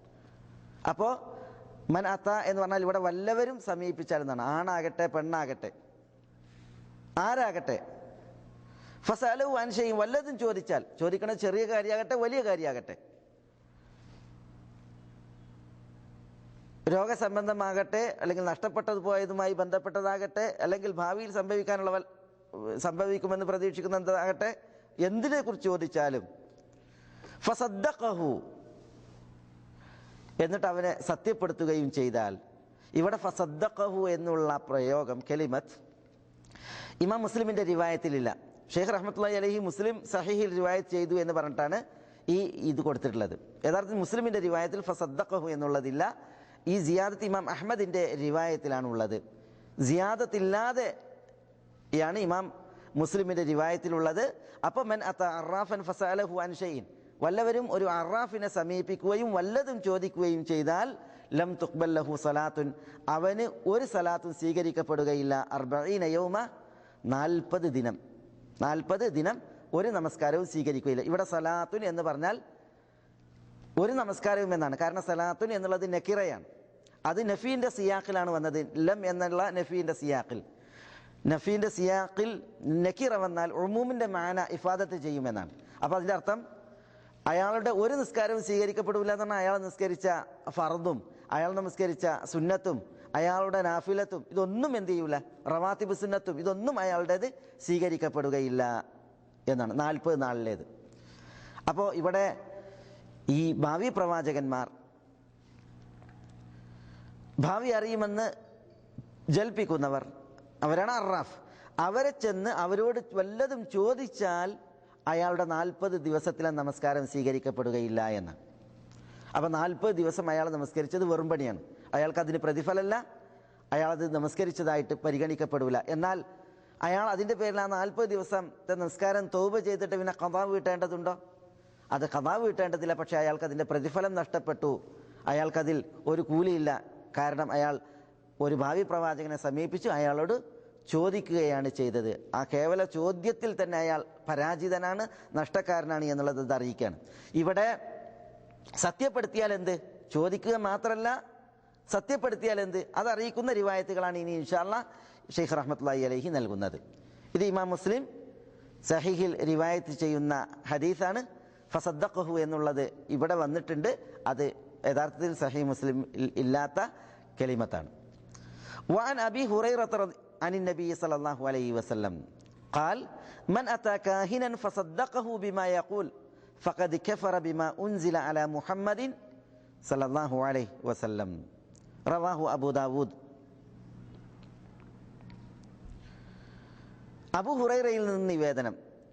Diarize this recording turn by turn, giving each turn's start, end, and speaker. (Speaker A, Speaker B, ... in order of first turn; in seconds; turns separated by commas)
Speaker A: 0.9-1.2, Speaker A: 1.9-5.7, Speaker A: 7.2-7.8, Speaker A: 9.0-13.0, Speaker A: 16.9-26.2, Speaker A: 27.4-28.4, Speaker A: 30.4-32.4, Speaker A: 33.0-35.8, Speaker A: 37.0-46.1, Speaker A: 46.7-49.2, Speaker A: 49.8-50.9, Speaker A: 52.0-66.5, Speaker A: 67.1-68.0, Speaker A: 68.6-72.4, Speaker A: 73.8-76.5, Speaker A: 77.1-80.4, Speaker A: 81.2-86.4, Speaker A: 87.3-98.7, Speaker A: 99.5-100.7, Speaker A: 101.7-102.3, Speaker A: 103.3-104.7, Speaker A: 107.4-108.3, Speaker A: 109.3-110.1, Speaker A: 110.6-114.5, Speaker A: 115.1-118.4, Speaker A: 119.3-123.0, Speaker A: 123.7-126.2, Speaker A: 126.8-131.2, Speaker A: 131.9-134.8, Speaker A: 135.3-137.8, Speaker A: 138.4-140.4, Speaker A: 140.9-147.7, Speaker A: 148.8-151.2, Speaker A: 151.9-156.8, Speaker A: 157.3-158.1, Speaker A: 158.8-167.9, Speaker A: 168.9-172.2, Speaker A: 172.7-176.1, Speaker A: 176.6-179.1, Speaker A: 179.8-181.3, Speaker A: 182.1-183.1, Speaker A: 187.3-188.8